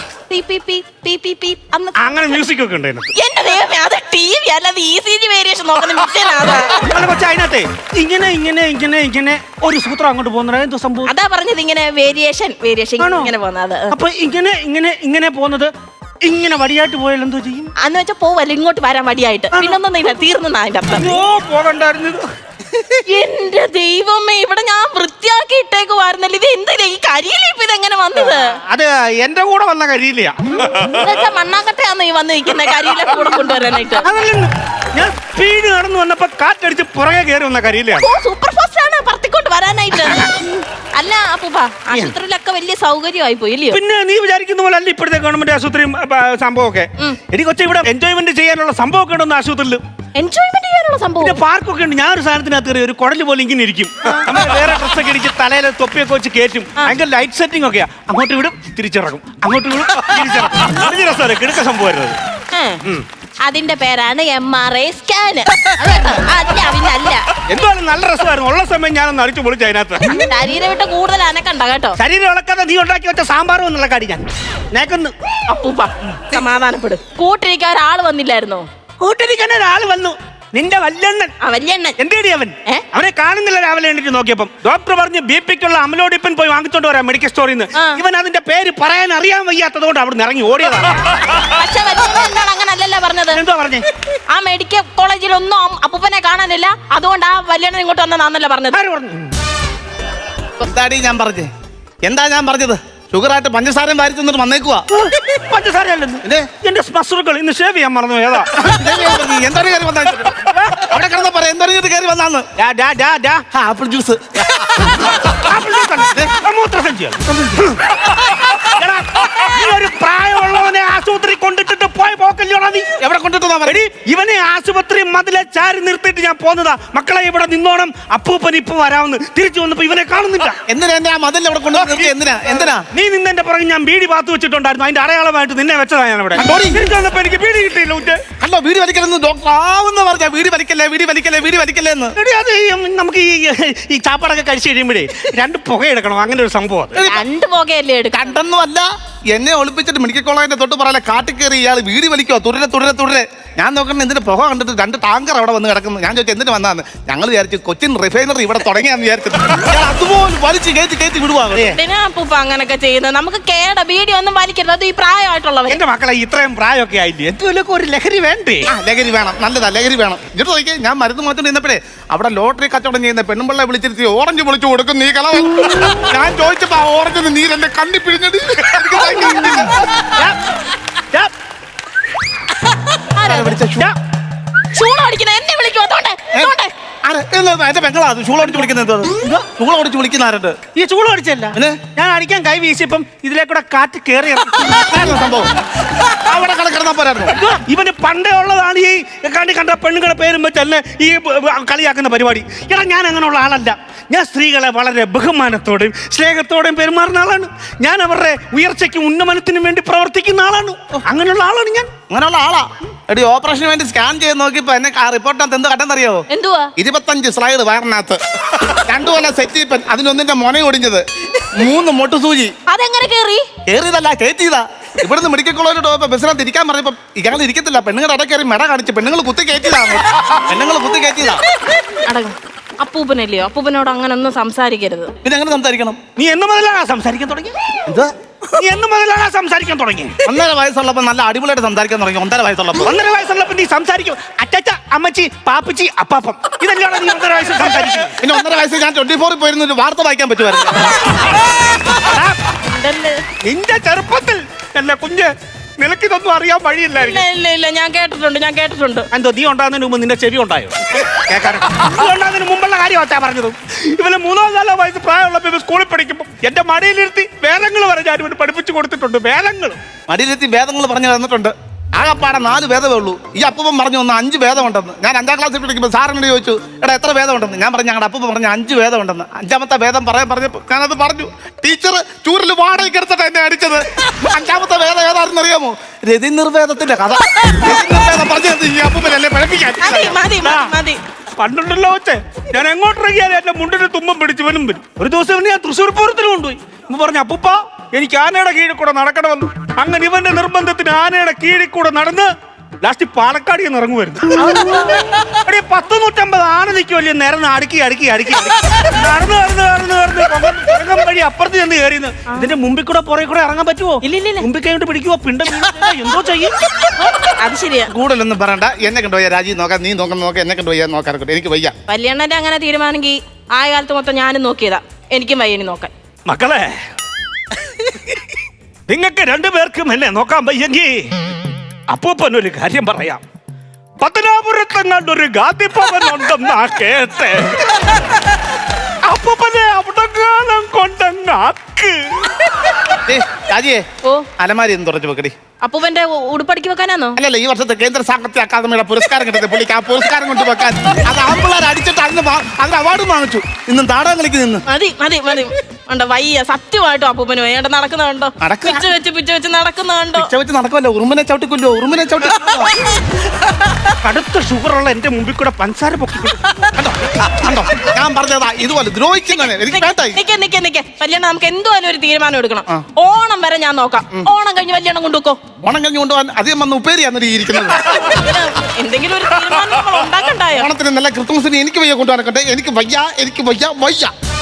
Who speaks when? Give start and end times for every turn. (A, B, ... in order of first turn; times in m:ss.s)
0:00.3-0:02.2 A
0:02.0-0:03.1 B
0:03.1-0:06.9 A
0:06.7-0:11.1 B
0:11.0-0:13.9 A
0:13.0-0:13.3 B
0:13.9-0:15.7 B
0:16.2-0:17.7 B
0:17.8-0:21.2 A
0:19.5-0:19.8 B
0:20.9-0:22.2 B
0:23.1-0:28.6 A
0:28.2-0:30.9 B
0:30.8-0:34.1 A
0:34.0-0:38.0 B
0:38.0-0:43.8 A
0:43.7-0:49.8 B
0:50.2-0:51.4 A
0:51.2-1:02.2 B
1:02.5-1:02.8 A
1:03.4-1:07.2 A
1:07.5-1:10.2 B
1:10.1-1:12.0 A
1:12.0-1:15.1 B
1:15.5-1:18.6 A
1:19.0-1:21.3 B
1:21.4-1:22.0 A
1:22.0-1:31.1 B
1:27.7-1:28.0 A
1:31.3-1:33.4 A
1:33.3-1:33.8 B
1:34.3-1:38.8 A
1:38.7-1:39.3 B
1:40.6-1:41.5 C
1:42.0-1:44.8 C
1:44.9-1:48.8 B
1:46.2-1:46.5 C
1:48.7-1:52.4 C
1:50.4-1:50.8 B
1:52.6-1:53.4 B
1:53.5-1:54.9 C
1:54.9-2:02.9 B
2:03.0-2:03.8 C
2:03.6-2:10.6 B
2:10.7-2:12.8 C
2:11.7-2:18.2 B
2:16.4-2:16.8 C
2:18.4-2:22.1 C
2:22.2-2:27.0 B
2:26.9-2:27.2 C
2:27.0-2:28.4 A
2:28.1-2:41.8 C
2:41.5-2:41.8 B
2:41.7-2:45.8 A
2:45.7-2:48.7 B
2:48.7-2:59.8 C
3:00.0-3:00.4 B
3:03.1-3:03.6 A
3:03.2-3:03.9 C
3:04.7-3:06.7 A
3:07.0-3:10.6 C
3:10.8-3:14.8 B
3:11.5-3:11.8 C
3:14.8-3:15.5 C
3:16.0-3:17.3 C
3:17.3-3:31.9 B
3:32.1-3:36.2 C
3:36.3-3:36.7 A
3:36.8-3:41.0 C
3:41.5-3:42.5 C
3:42.7-3:43.5 A
3:43.7-3:51.4 C
3:52.0-3:55.1 A
3:55.2-3:56.0 C
3:56.2-3:57.5 B
3:57.9-3:58.1 C
3:58.5-4:00.2 B
4:00.2-4:02.9 C
4:02.8-4:08.2 B
4:08.2-4:11.2 C
4:12.0-4:12.4 B
4:12.6-4:13.2 A
4:13.4-4:17.2 B
4:16.9-4:19.1 A
4:19.1-4:29.8 B
4:30.1-4:50.2 C
4:49.8-4:51.0 A
4:50.4-4:50.7 B
4:51.4-5:02.3 B
5:02.8-5:16.5 B
5:04.4-5:05.2 A
5:14.0-5:14.4 A
5:16.9-5:17.9 A
5:17.9-5:21.7 C
5:21.9-5:25.9 A
5:26.3-5:26.7 B
5:28.9-5:31.1 B
5:31.9-5:33.2 B
5:34.0-5:37.9 B
5:39.0-5:42.6 B
5:43.0-5:43.8 C
5:44.4-5:45.3 C
5:45.6-5:47.2 A
5:47.2-5:54.6 C
5:54.7-6:00.3 A
5:58.4-5:58.8 C
6:00.1-6:02.7 C
6:04.0-6:06.5 B
6:06.7-6:10.2 C
6:09.3-6:15.4 A
6:15.6-6:18.0 C
6:17.9-6:20.7 A
6:20.5-6:24.1 C